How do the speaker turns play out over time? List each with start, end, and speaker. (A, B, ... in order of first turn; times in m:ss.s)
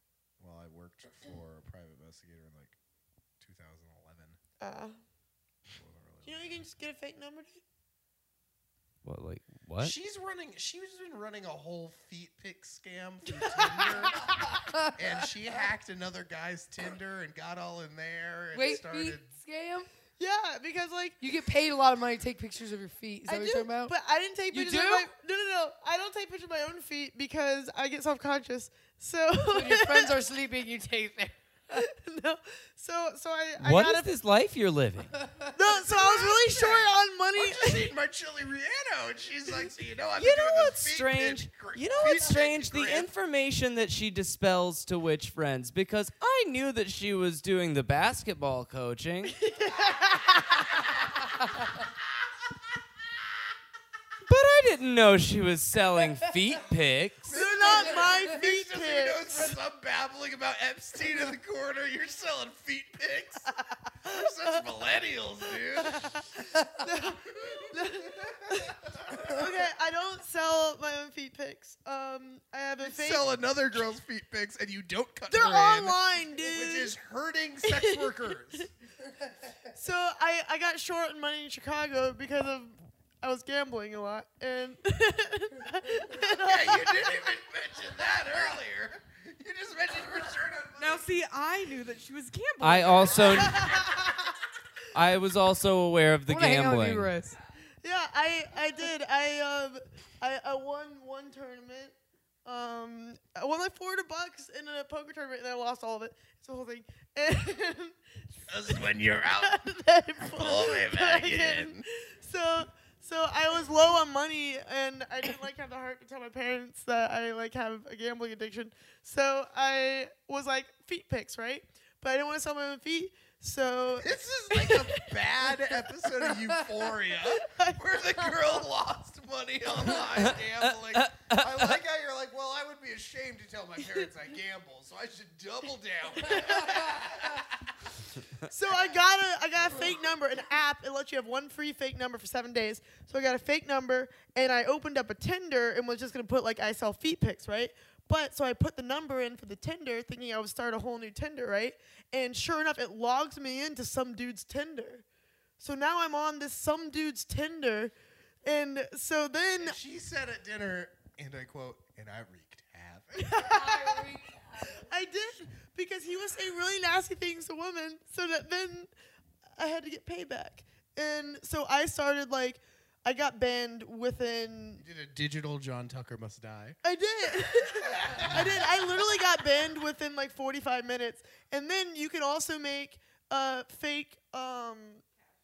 0:00.4-0:02.8 A
0:03.4-0:04.4 A
0:04.6-0:05.0 B
0:05.7-0:06.7 A
0:06.2-0:07.6 B
0:09.0-0:09.9 C
0:09.8-0:14.4 A
0:13.6-0:14.5 B
0:14.9-0:19.3 A
0:18.5-0:19.9 D
0:20.2-0:21.2 B
0:21.2-0:23.9 D
0:23.3-0:30.2 B
0:24.5-0:25.1 D
0:29.5-0:31.8 D
0:31.7-0:34.0 B
0:33.6-0:35.1 C
0:35.2-0:35.5 D
0:35.5-0:37.9 B
0:35.7-0:43.1 A
0:40.2-0:49.4 C
0:49.4-0:50.8 B
0:54.2-0:57.4 C
0:57.2-1:03.5 A
0:57.3-0:59.6 B
1:04.0-1:04.6 B
1:04.0-1:06.2 A
1:05.8-1:13.2 B
1:07.4-1:09.6 A
1:12.8-1:18.7 A
1:15.3-1:16.9 B
1:17.6-1:18.7 B
1:19.7-1:27.1 B
1:26.2-1:31.1 A
1:30.8-1:33.6 E
1:32.6-1:33.7 C
1:33.4-1:34.3 B
1:34.9-1:37.1 C
1:36.3-1:37.4 D
1:37.8-2:05.2 B
1:48.5-1:49.6 A
1:50.2-1:51.8 A
2:04.0-2:18.0 A
2:07.4-2:08.3 B
2:10.9-2:11.7 C
2:16.2-2:16.9 B
2:18.5-2:35.0 B
2:35.6-2:39.8 B
2:39.6-2:43.4 A
2:43.2-2:44.0 B
2:43.3-2:44.9 D
2:44.7-2:48.9 B
2:49.6-2:54.8 B
2:54.8-2:56.8 A
2:56.8-3:05.0 B
2:57.6-2:59.2 A